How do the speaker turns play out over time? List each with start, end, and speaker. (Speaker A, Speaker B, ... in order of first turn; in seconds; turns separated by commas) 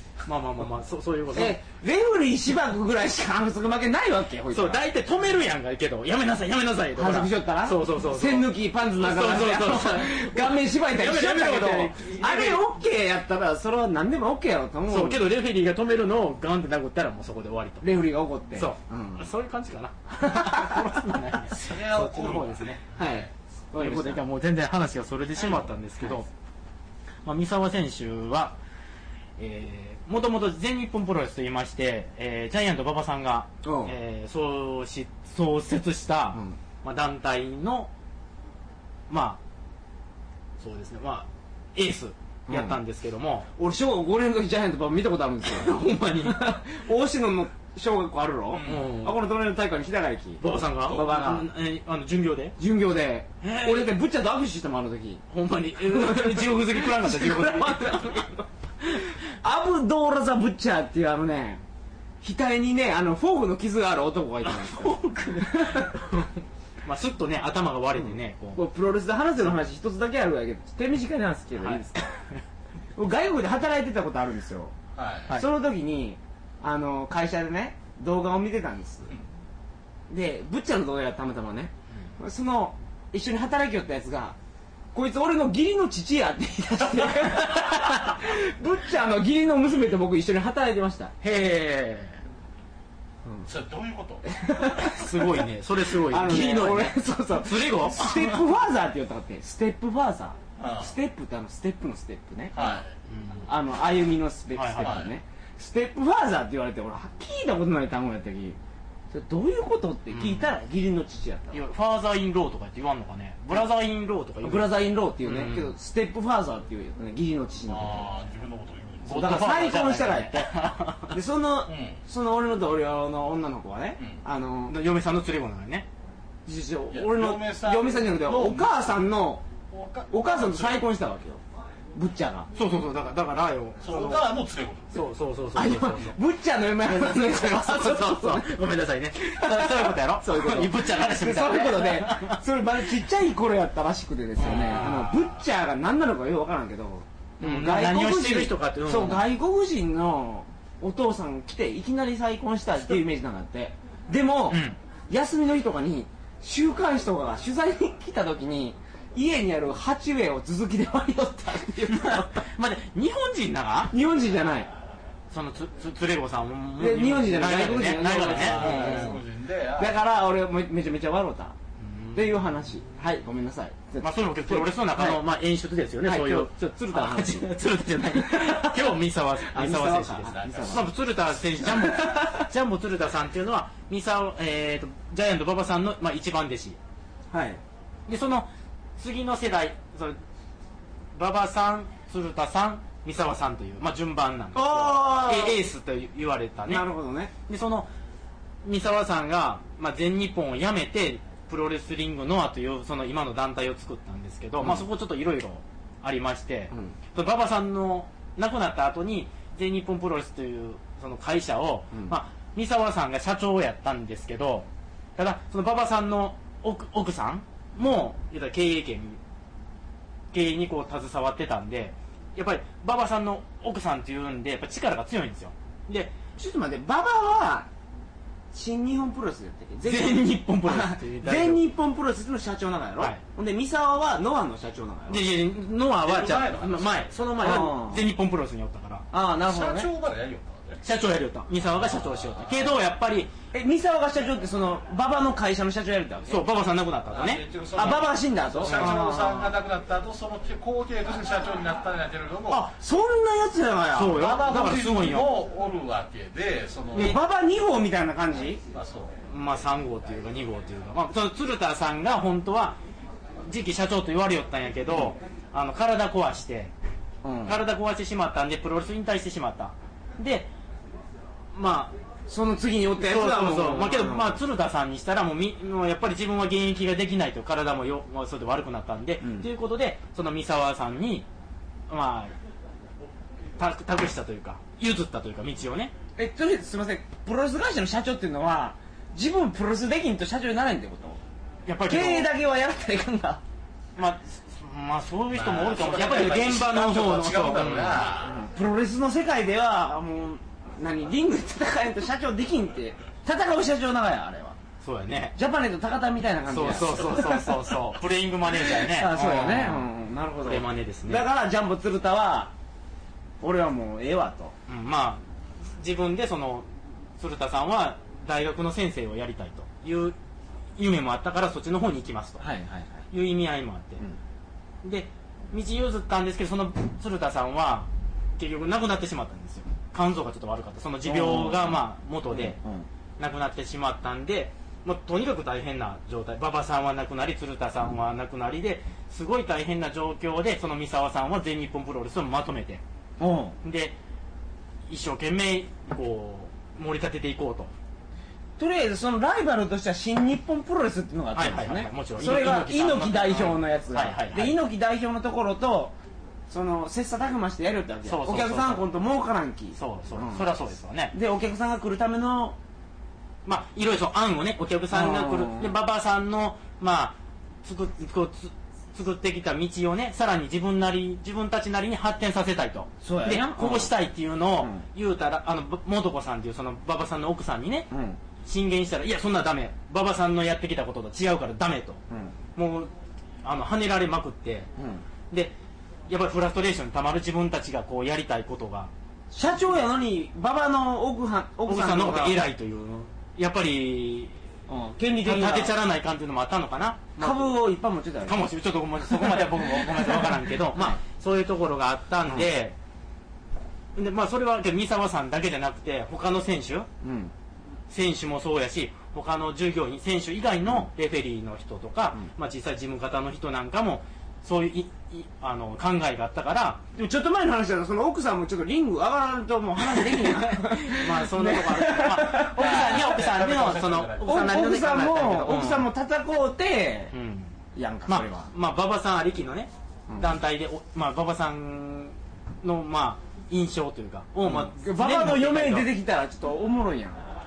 Speaker A: 0.2-1.6, Speaker B: 1.3-4.8, Speaker A: 4.5-12.7, Speaker B: 6.9-15.2, Speaker A: 14.9-17.9, Speaker B: 17.8-19.2, Speaker A: 18.5-22.8, Speaker B: 20.2-20.9, Speaker C: 21.5-23.2, Speaker B: 22.9-24.2, Speaker A: 23.7-26.3, Speaker B: 25.4-26.1, Speaker A: 27.2-28.6, Speaker A: 29.4-37.9, Speaker B: 33.6-33.9, Speaker A: 39.1-39.4, Speaker A: 40.6-43.5, Speaker B: 42.5-42.8, Speaker B: 43.5-51.5, Speaker A: 45.4-46.5, Speaker A: 48.5-49.2, Speaker A: 50.4-52.6, Speaker B: 52.6-55.2, Speaker A: 53.4-53.9, Speaker A: 55.3-58.4, Speaker B: 55.8-61.6, Speaker B: 62.2-66.0, Speaker A: 64.4-68.6, Speaker B: 68.0-72.1, Speaker A: 71.6-72.4, Speaker B: 73.0-74.7, Speaker C: 75.0-75.4, Speaker B: 75.3-79.1, Speaker B: 80.1-84.3, Speaker B: 84.9-91.1, Speaker A: 91.2-92.2, Speaker C: 93.5-94.3, Speaker B: 94.2-102.8, Speaker A: 94.8-98.4, Speaker C: 100.6-100.9, Speaker C: 102.5-102.9, Speaker A: 103.1-103.5, Speaker B: 103.5-108.6, Speaker A: 104.5-105.0, Speaker C: 104.8-105.1, Speaker B: 109.1-111.6, Speaker A: 110.1-110.5, Speaker A: 111.5-115.7, Speaker B: 114.4-118.1, Speaker C: 117.7-119.3, Speaker A: 119.0-121.2, Speaker B: 119.1-120.5, Speaker B: 121.1-124.8, Speaker C: 121.7-122.0, Speaker A: 124.7-125.9, Speaker B: 126.5-129.4, Speaker C: 126.9-128.9, Speaker C: 129.7-130.9, Speaker B: 130.1-131.4, Speaker B: 131.9-132.5, Speaker A: 132.5-134.2, Speaker C: 133.8-134.9, Speaker A: 134.9-136.2, Speaker B: 135.5-138.6, Speaker A: 136.9-142.4, Speaker B: 139.2-162.4, Speaker A: 144.4-145.2, Speaker C: 144.7-145.0, Speaker A: 147.4-149.2, Speaker A: 154.5-154.8, Speaker A: 161.8-163.9, Speaker B: 163.9-164.7, Speaker A: 165.3-169.2, Speaker B: 166.8-169.2, Speaker C: 167.9-170.0, Speaker B: 169.8-171.6, Speaker A: 171.8-172.5, Speaker B: 172.1-175.2, Speaker A: 174.0-186.8, Speaker B: 176.0-177.5, Speaker B: 178.0-178.9, Speaker B: 179.5-180.8, Speaker C: 180.3-180.8, Speaker B: 181.5-182.5, Speaker B: 187.3-187.6, Speaker A: 188.1-190.2, Speaker A: 191.1-196.9, Speaker B: 194.5-195.6, Speaker B: 196.7-197.3, Speaker A: 197.5-197.9, Speaker A: 198.6-219.2, Speaker B: 204.6-204.8, Speaker B: 206.7-206.9, Speaker A: 220.3-226.2, Speaker B: 226.3-227.7, Speaker B: 228.5-235.2, Speaker A: 229.8-231.6, Speaker A: 235.1-239.1, Speaker C: 236.0-237.2, Speaker B: 237.3-238.1, Speaker B: 239.1-239.9, Speaker C: 239.4-240.8, Speaker A: 240.8-243.3, Speaker C: 242.0-242.3, Speaker B: 243.5-246.4, Speaker A: 246.3-247.4, Speaker C: 247.1-252.7, Speaker B: 247.7-249.5, Speaker A: 248.6-249.3, Speaker B: 252.5-254.5, Speaker A: 253.9-255.4, Speaker C: 254.1-257.1, Speaker B: 256.9-258.6, Speaker C: 258.7-259.1, Speaker A: 259.3-262.8, Speaker A: 263.4-266.7, Speaker B: 267.2-267.6, Speaker A: 267.4-270.5, Speaker A: 271.5-271.9, Speaker B: 272.3-274.4, Speaker A: 273.0-281.2, Speaker B: 279.2-279.5, Speaker A: 281.9-282.3, Speaker A: 283.6-285.9, Speaker B: 286.1-291.2, Speaker A: 291.6-292.3, Speaker B: 291.9-293.4, Speaker A: 293.9-298.1, Speaker C: 295.3-298.4, Speaker B: 298.0-304.6, Speaker A: 304.8-305.4, Speaker B: 305.4-307.8, Speaker A: 306.5-309.9, Speaker B: 308.5-312.5, Speaker A: 310.4-311.2, Speaker B: 313.4-314.6, Speaker A: 314.7-315.2, Speaker A: 315.8-316.7, Speaker A: 317.2-320.1, Speaker A: 320.8-322.4, Speaker B: 322.4-323.1, Speaker A: 323.1-324.0, Speaker A: 324.8-332.6, Speaker B: 331.0-332.9, Speaker A: 333.2-342.8, Speaker B: 343.2-343.6, Speaker A: 343.6-343.9, Speaker A: 344.9-347.7, Speaker B: 348.6-355.9, Speaker A: 351.3-354.6, Speaker B: 356.5-360.5, Speaker A: 358.1-358.9, Speaker A: 359.8-361.1, Speaker B: 361.1-362.6, Speaker A: 363.4-377.9, Speaker B: 364.9-365.7, Speaker B: 373.0-373.9, Speaker B: 374.6-374.8, Speaker B: 377.9-378.2, Speaker A: 378.4-382.0, Speaker B: 382.1-382.4, Speaker A: 382.5-382.9, Speaker A: 383.4-384.7, Speaker B: 384.8-385.0, Speaker A: 386.1-388.9, Speaker B: 389.3-392.4, Speaker A: 391.7-394.3, Speaker B: 394.7-395.7, Speaker A: 395.2-397.6, Speaker B: 397.2-398.4, Speaker A: 398.2-402.7, Speaker B: 399.0-401.0, Speaker A: 403.9-406.9, Speaker B: 407.0-407.3, Speaker A: 407.9-416.8, Speaker B: 416.9-423.2, Speaker A: 420.0-425.9, Speaker C: 422.6-424.4, Speaker B: 424.2-427.1, Speaker A: 427.1-427.5, Speaker B: 427.7-428.5, Speaker A: 428.1-435.9, Speaker B: 430.1-430.3, Speaker B: 434.4-437.3